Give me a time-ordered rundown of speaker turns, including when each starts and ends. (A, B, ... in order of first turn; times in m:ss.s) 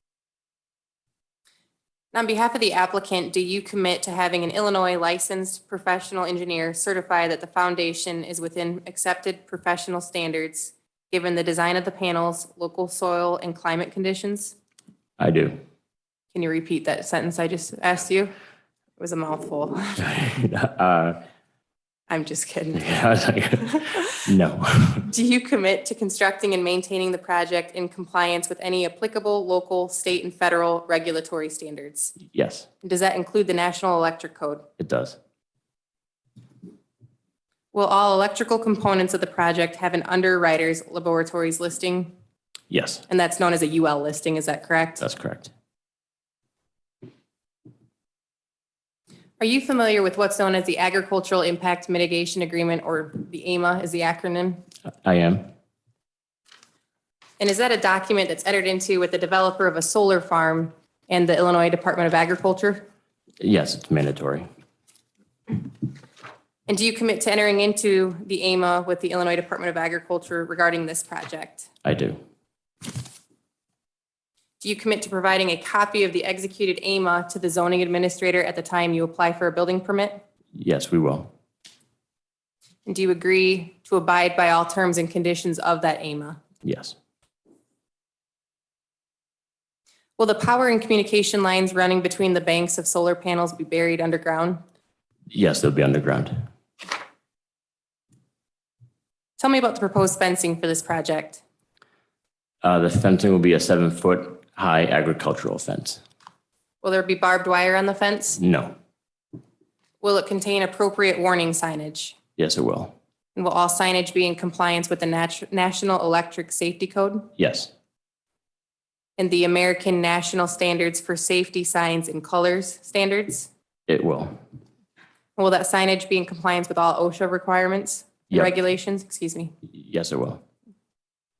0:02.1-0:14.5 A
0:15.2-0:15.6 B
0:16.3-0:18.3 A
0:19.0-0:20.0 A
0:20.0-0:21.2 B
0:22.1-0:22.9 A
0:22.8-0:25.1 B
0:25.0-0:32.2 A
0:32.3-0:32.7 B
0:32.8-0:34.7 A
0:34.8-0:35.2 B
0:37.7-0:42.1 A
0:42.7-0:43.0 B
0:43.1-0:45.0 A
0:45.0-0:45.5 B
0:49.4-0:54.6 A
0:55.0-0:55.4 B
0:57.4-1:02.8 A
1:03.4-1:04.5 B
1:06.7-1:11.7 A
1:11.8-1:12.2 B
1:14.6-1:20.2 A
1:20.5-1:21.3 B
1:22.8-1:26.4 A
1:26.6-1:26.9 B
1:30.2-1:34.6 A
1:35.3-1:36.4 B
1:39.4-1:41.4 A
1:42.6-1:46.0 B
1:46.8-1:48.4 A
1:48.4-1:48.8 B
1:50.0-1:52.2 A
1:52.4-1:52.9 B
1:53.4-1:57.3 A
1:57.4-1:57.7 B
1:59.2-2:03.5 A
2:03.9-2:04.4 B
2:05.4-2:09.5 A
2:09.7-2:10.4 B